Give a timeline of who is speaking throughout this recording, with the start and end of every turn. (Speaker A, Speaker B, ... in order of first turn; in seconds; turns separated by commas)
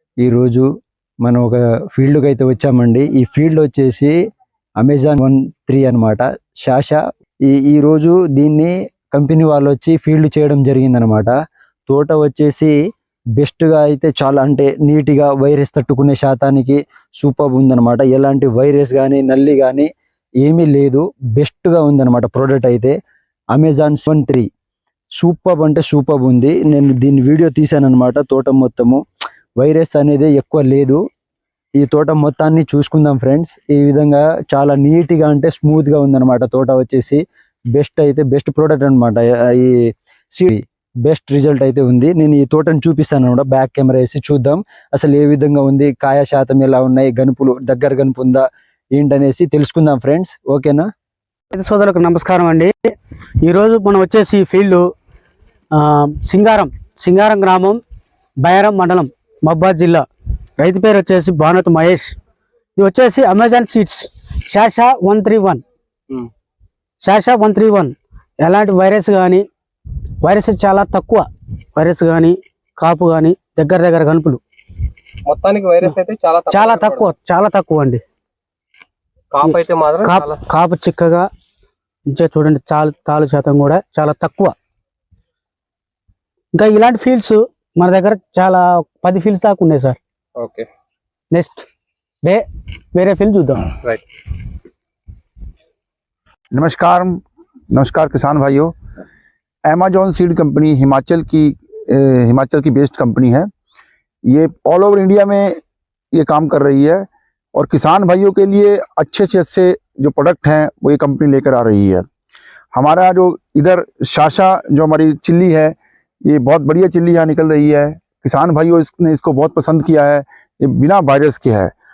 Speaker A: 0.2-0.7, Speaker A: 1.2-4.1, Speaker A: 4.8-11.3, Speaker A: 11.9-12.7, Speaker A: 13.3-19.9, Speaker A: 20.4-22.9, Speaker A: 23.5-24.5, Speaker A: 25.2-29.0, Speaker A: 29.6-31.0, Speaker A: 31.8-37.2, Speaker A: 37.7-50.9, Speaker B: 51.5-54.8, Speaker B: 55.7-57.8, Speaker B: 58.4-60.0, Speaker B: 60.6-62.1, Speaker B: 62.8-65.6, Speaker B: 67.0-69.4, Speaker B: 70.2-74.4, Speaker C: 75.2-77.1, Speaker B: 76.5-78.0, Speaker C: 79.3-80.4, Speaker B: 79.4-81.3, Speaker B: 82.1-84.5, Speaker B: 86.5-90.0, Speaker C: 90.4-90.7, Speaker B: 91.3-91.6, Speaker B: 92.2-93.7, Speaker D: 96.5-98.7, Speaker D: 99.7-103.5, Speaker D: 104.3-105.6, Speaker D: 106.1-112.0, Speaker D: 112.7-121.7